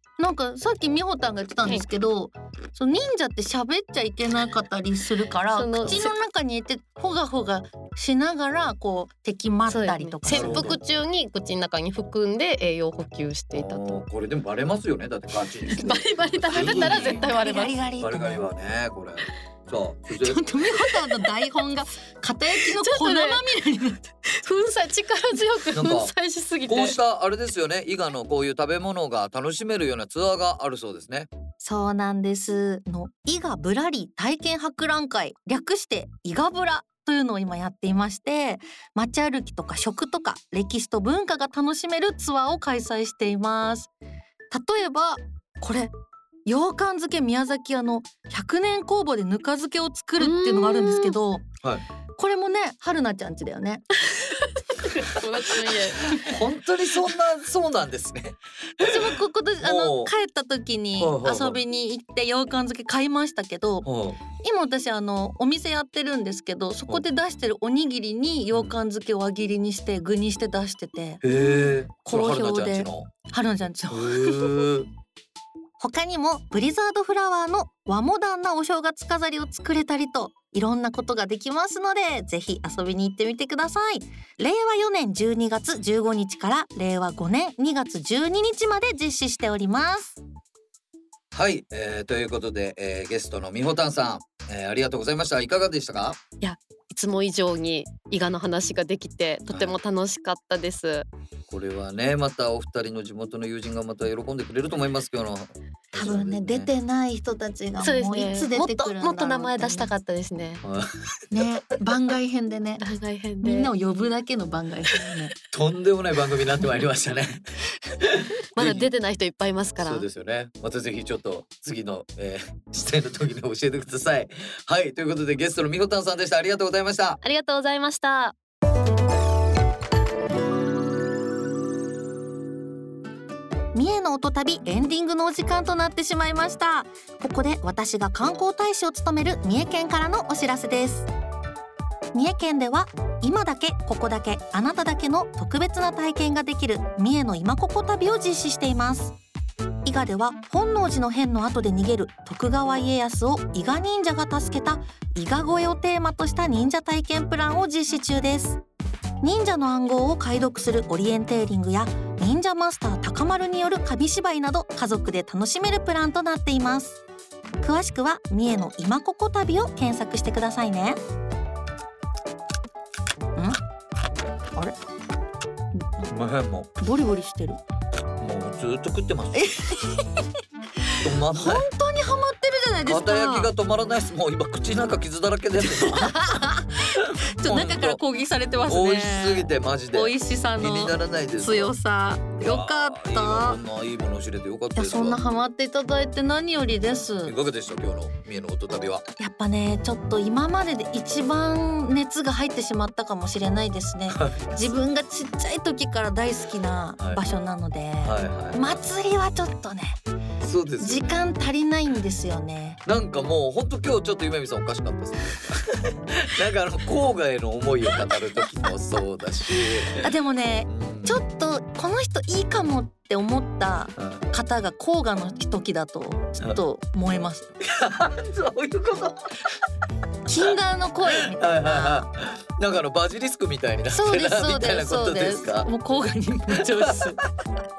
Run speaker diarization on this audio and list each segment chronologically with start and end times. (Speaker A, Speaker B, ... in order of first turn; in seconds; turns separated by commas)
Speaker A: 0.2-10.8, Speaker B: 5.5-6.1, Speaker B: 9.7-14.0, Speaker C: 10.3-10.8, Speaker C: 13.5-17.2, Speaker B: 15.7-17.8, Speaker A: 16.5-18.4, Speaker C: 18.0-20.5, Speaker A: 20.1-24.1, Speaker B: 22.5-23.4, Speaker B: 24.2-27.0, Speaker C: 25.7-26.1, Speaker C: 26.6-31.3, Speaker A: 31.6-43.9, Speaker A: 44.5-45.9, Speaker A: 46.5-51.5, Speaker B: 50.2-51.2, Speaker A: 52.2-53.9, Speaker B: 54.0-56.1, Speaker C: 56.0-60.1, Speaker A: 58.8-63.9, Speaker C: 61.0-61.6, Speaker C: 63.8-64.2, Speaker A: 64.4-71.2, Speaker C: 71.2-73.1, Speaker A: 72.0-74.7, Speaker C: 73.9-74.9, Speaker A: 75.8-90.2, Speaker C: 91.3-96.2, Speaker B: 96.4-101.1, Speaker C: 99.5-99.8, Speaker C: 101.5-106.7, Speaker A: 105.9-109.9, Speaker B: 107.8-110.6, Speaker C: 110.6-111.1, Speaker A: 111.3-112.8, Speaker B: 112.8-113.7, Speaker A: 113.4-115.3, Speaker C: 115.5-118.8, Speaker B: 118.5-120.0, Speaker C: 119.8-127.2, Speaker B: 127.2-128.3, Speaker A: 133.7-141.1, Speaker A: 142.1-149.2, Speaker A: 149.8-158.6, Speaker A: 159.2-167.0, Speaker A: 167.6-171.0, Speaker A: 175.7-176.1, Speaker C: 176.1-176.7, Speaker A: 176.8-177.6, Speaker C: 178.2-179.5, Speaker A: 179.3-180.2, Speaker A: 180.9-183.5, Speaker C: 181.0-181.7, Speaker C: 182.9-186.5, Speaker A: 185.7-193.6, Speaker C: 187.0-188.0, Speaker C: 188.7-191.7, Speaker C: 192.4-195.2, Speaker A: 194.7-197.3, Speaker C: 197.2-199.0, Speaker A: 199.2-210.0, Speaker C: 204.1-204.5, Speaker C: 208.0-208.8, Speaker C: 210.4-211.2, Speaker A: 210.8-212.8, Speaker C: 212.8-220.1, Speaker A: 219.6-227.6, Speaker C: 220.7-221.2, Speaker C: 224.0-224.2, Speaker C: 227.6-229.6, Speaker A: 230.2-232.1, Speaker C: 231.2-235.7, Speaker A: 233.9-237.2, Speaker C: 236.5-237.2